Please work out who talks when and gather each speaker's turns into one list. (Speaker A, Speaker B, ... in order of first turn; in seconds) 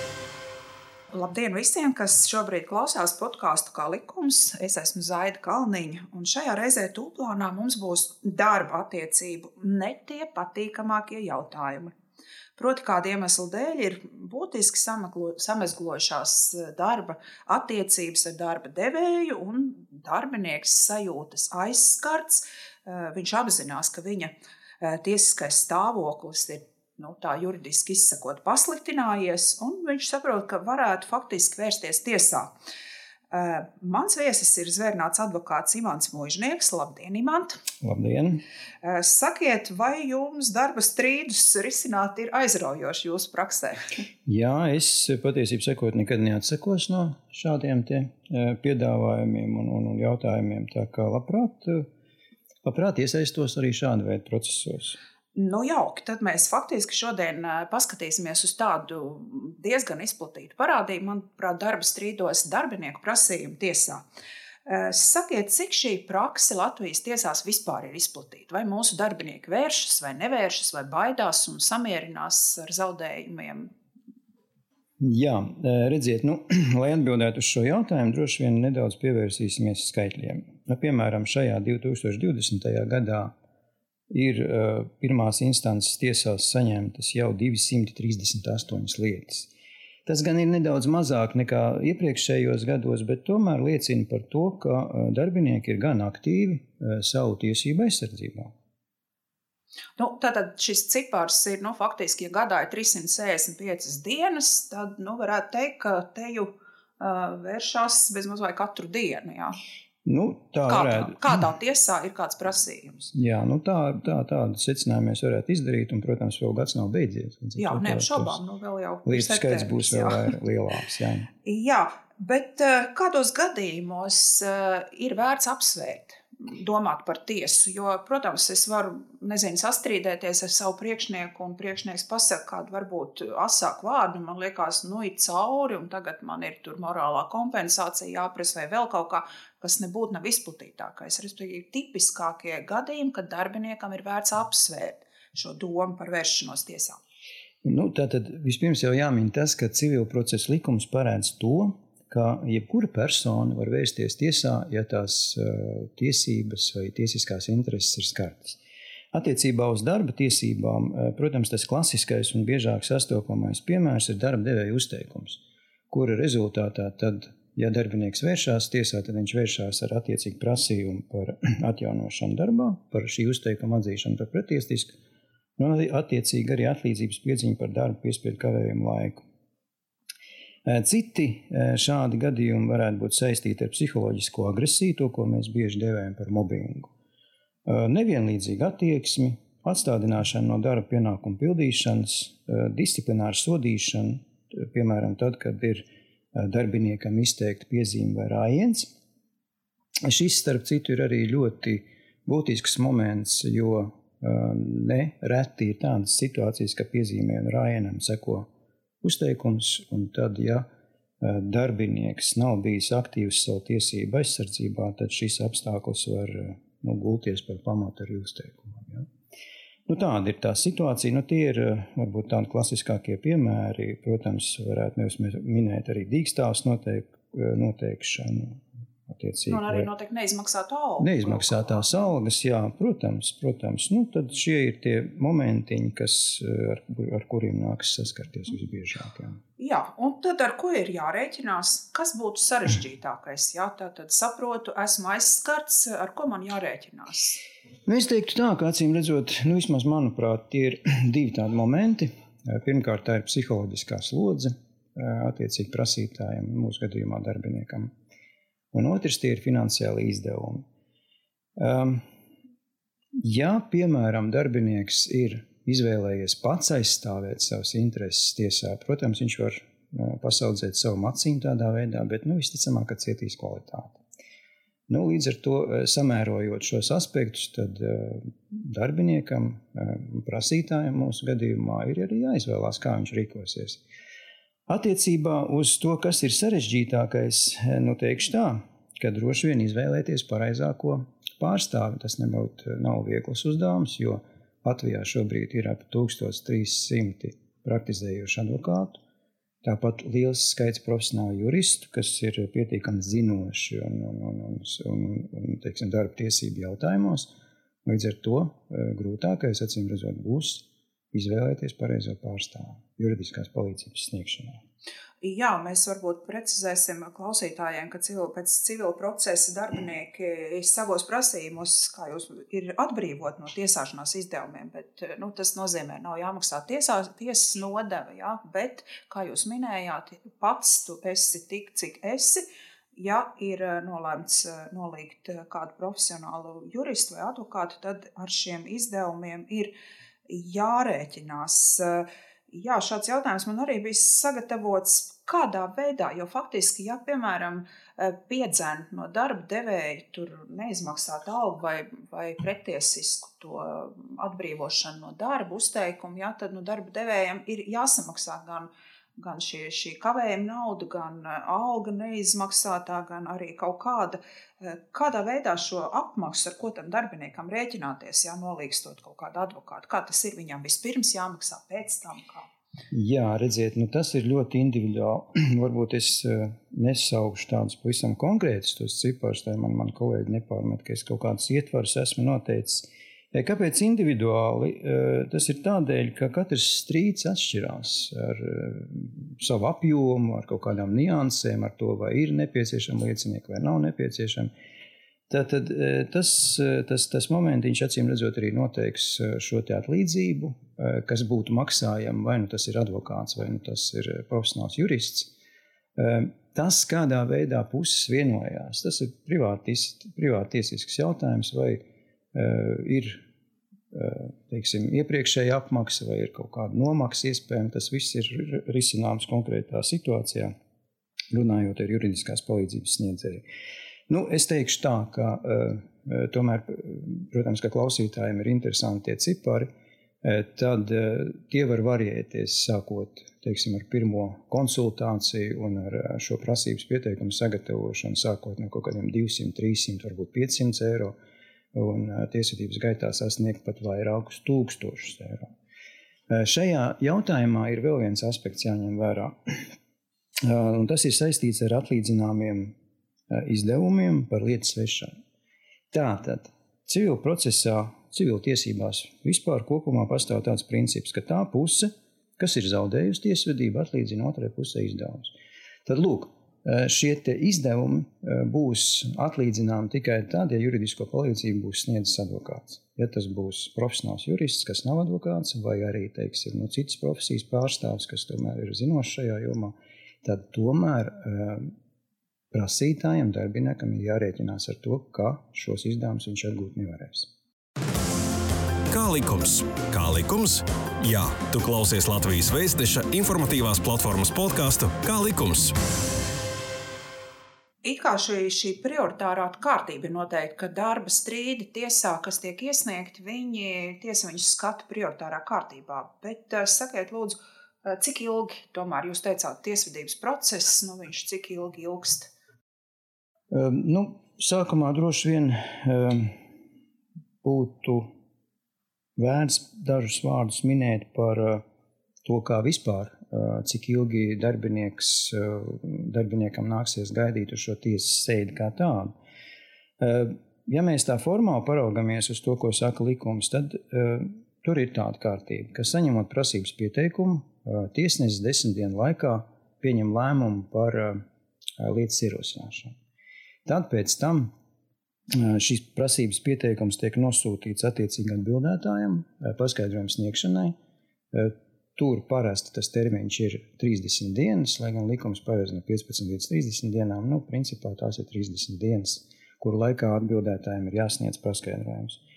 Speaker A: 1.1-11.9, 12.6-32.5, 33.3-37.6, 38.8-43.8, 55.3-64.0, 64.7-73.7, 100.0-109.6, 110.7-113.1, 117.6-120.3, 121.4-147.0, 229.5-231.9, 239.6-247.4, 315.2-339.7, 340.3-372.5, 497.8-512.3
Speaker B: 37.8-38.4, 44.2-51.9, 52.6-55.0, 75.0-83.3, 84.1-89.5, 90.0-98.5, 110.0-111.2, 113.1-118.4, 119.0-121.3, 147.6-158.6, 159.1-175.0, 175.6-179.2, 180.6-186.9, 187.7-198.9, 200.0-208.5, 209.0-210.7, 211.2-219.1, 219.9-229.9, 231.0-239.4, 247.8-257.9, 258.7-260.6, 261.6-262.0, 263.2-274.0, 274.9-283.8, 284.7-299.0, 299.6-307.3, 307.8-314.6, 372.9-394.5, 395.3-405.3, 405.9-413.2, 413.9-420.5, 421.3-423.4, 424.1-429.7, 430.2-441.1, 441.7-445.5, 446.3-449.7, 450.4-452.7, 453.3-455.1, 455.9-465.3, 465.8-481.7, 482.5-487.3, 513.5-516.4, 517.4-518.1, 519.2-521.6, 522.2-529.1, 530.0-541.2, 541.8-542.9, 543.6-544.5, 545.3-550.8, 551.3-562.2
Speaker C: 488.9-495.8